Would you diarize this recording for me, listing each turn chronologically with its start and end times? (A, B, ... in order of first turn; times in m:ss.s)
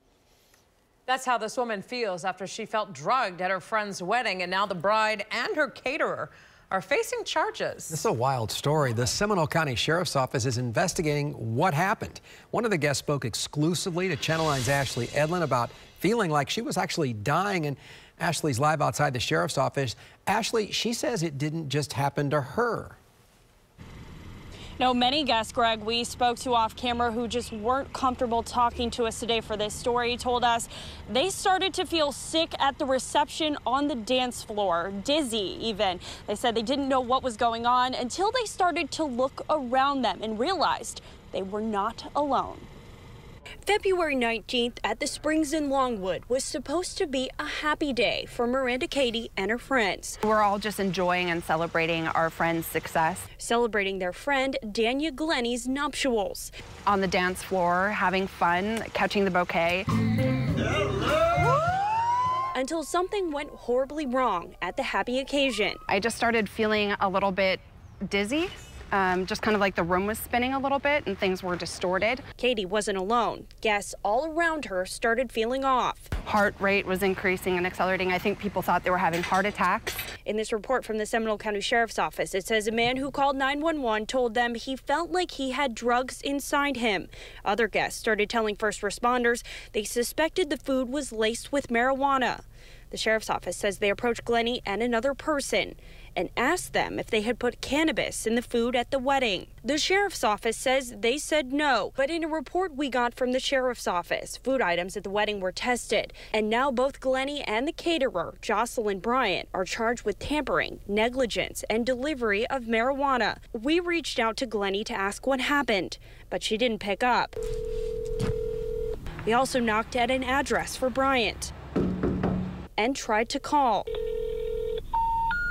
0:01.1-0:08.0 A
0:07.9-0:23.0 B
0:24.8-0:42.7 C
0:43.6-0:50.2 C
0:50.2-0:53.3 D
0:53.4-0:56.5 C
0:56.8-0:59.9 D
1:02.5-1:05.8 C
1:05.9-1:12.2 D
1:12.4-1:16.1 C
1:16.2-1:20.1 D
1:20.2-1:57.4 C
1:59.2-2:01.5 C
2:02.8-2:03.9 C